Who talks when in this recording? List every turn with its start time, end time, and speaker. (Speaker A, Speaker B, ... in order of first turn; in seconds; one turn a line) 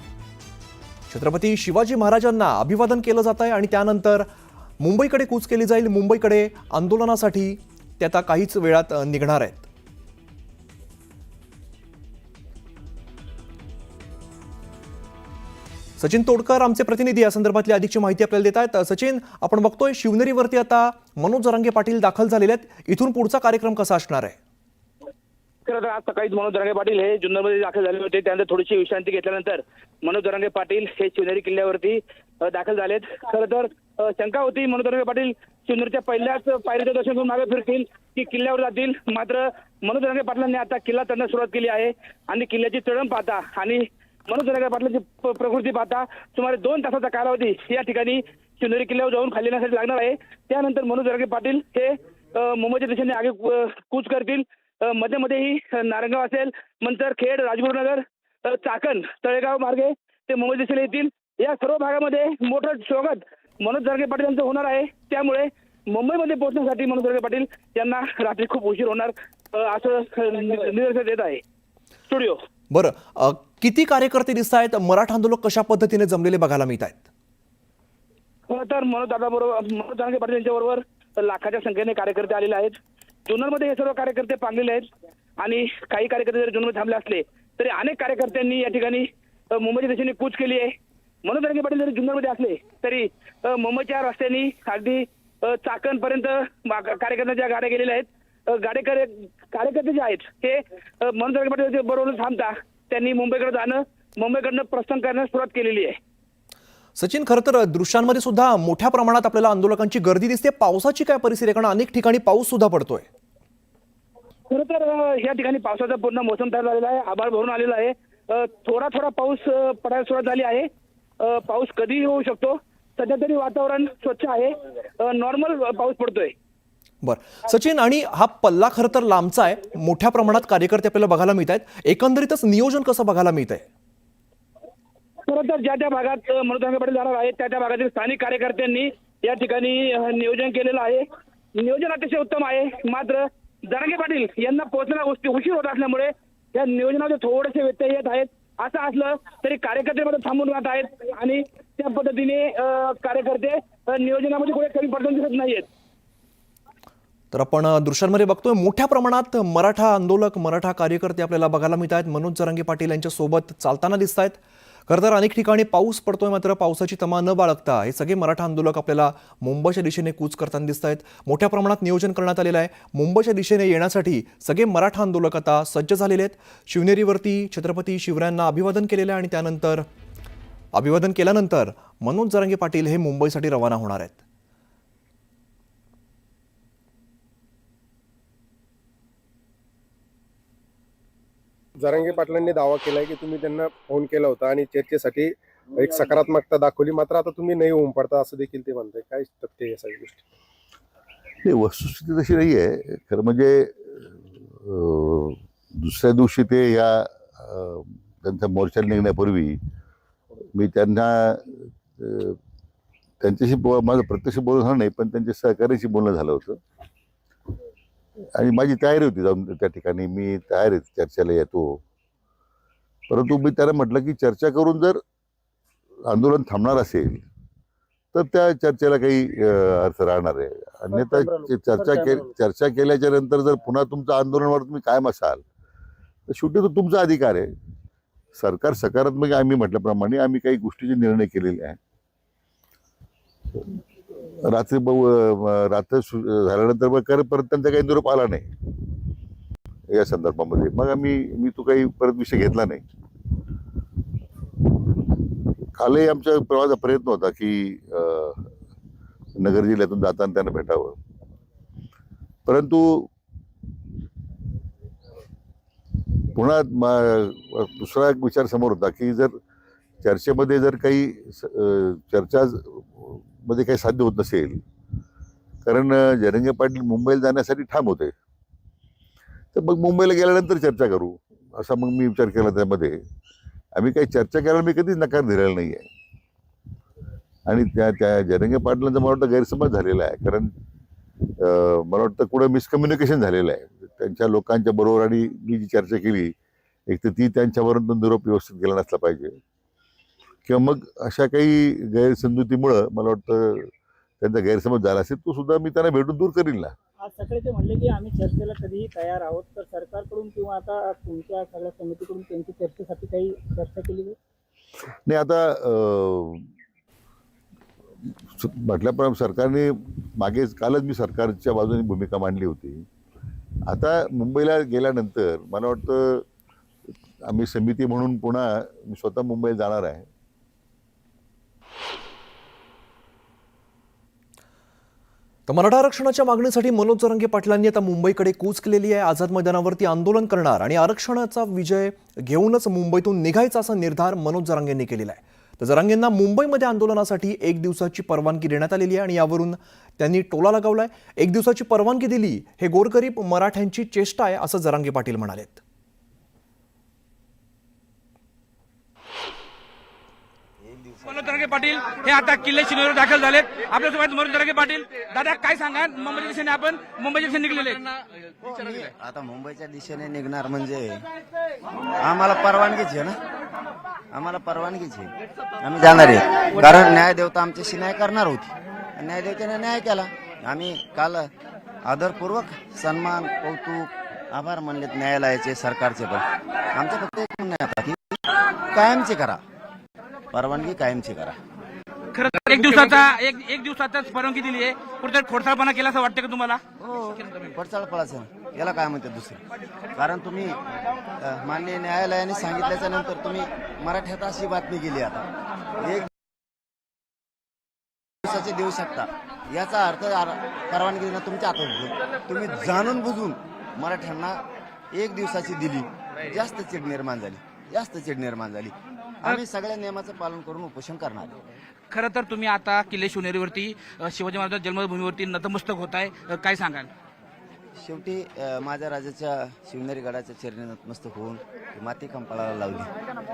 Speaker A: 1.1-4.3
Speaker A: 4.8-9.7
Speaker A: 16.0-24.4
Speaker B: 25.7-71.4
Speaker B: 72.1-72.4
Speaker A: 72.7-77.0
Speaker B: 78.5-82.8
Speaker B: 83.3-84.8
Speaker B: 85.4-90.7
Speaker B: 91.2-106.0
Speaker A: 107.0-113.1
Speaker B: 114.5-120.7
Speaker B: 121.2-126.3
Speaker A: 127.0-133.7
Speaker B: 135.3-141.1
Speaker B: 141.6-155.7
Speaker A: 157.3-179.9
Speaker A: 180.7-184.2
Speaker C: 191.8-200.2
Speaker D: 201.4-209.6
Speaker D: 210.5-212.4
Speaker D: 213.2-216.6
Speaker D: 218.3-221.8
Speaker D: 223.1-225.0
Speaker D: 226.1-227.3
Speaker D: 228.1-235.4
Speaker D: 236.3-237.5
Speaker D: 238.4-241.8
Speaker D: 244.5-248.5
Speaker D: 249.9-252.8
Speaker D: 255.8-258.5
Speaker D: 259.4-261.0
Speaker D: 262.5-263.1
Speaker D: 266.3-269.4
Speaker D: 270.0-274.6
Speaker D: 275.6-278.1
Speaker D: 279.5-283.0
Speaker D: 283.8-285.9
Speaker D: 287.5-290.5
Speaker D: 291.4-296.3
Speaker D: 296.9-299.4
Speaker D: 300.5-306.7
Speaker E: 307.1-314.1
Speaker D: 315.1-316.4
Speaker D: 318.4-322.9
Speaker D: 323.7-326.2
Speaker D: 327.3-330.1
Speaker A: 335.5-355.6
Speaker F: 360.6-361.6
Speaker G: 361.1-367.9
Speaker F: 368.4-371.1
Speaker F: 372.0-373.2
Speaker F: 374.1-381.3
Speaker F: 381.8-389.4
Speaker F: 390.3-391.4
Speaker G: 392.1-396.6
Speaker F: 396.8-400.6
Speaker F: 401.2-405.3
Speaker F: 405.8-406.1
Speaker F: 408.2-414.4
Speaker F: 414.9-421.4
Speaker G: 421.9-426.9
Speaker F: 427.8-432.9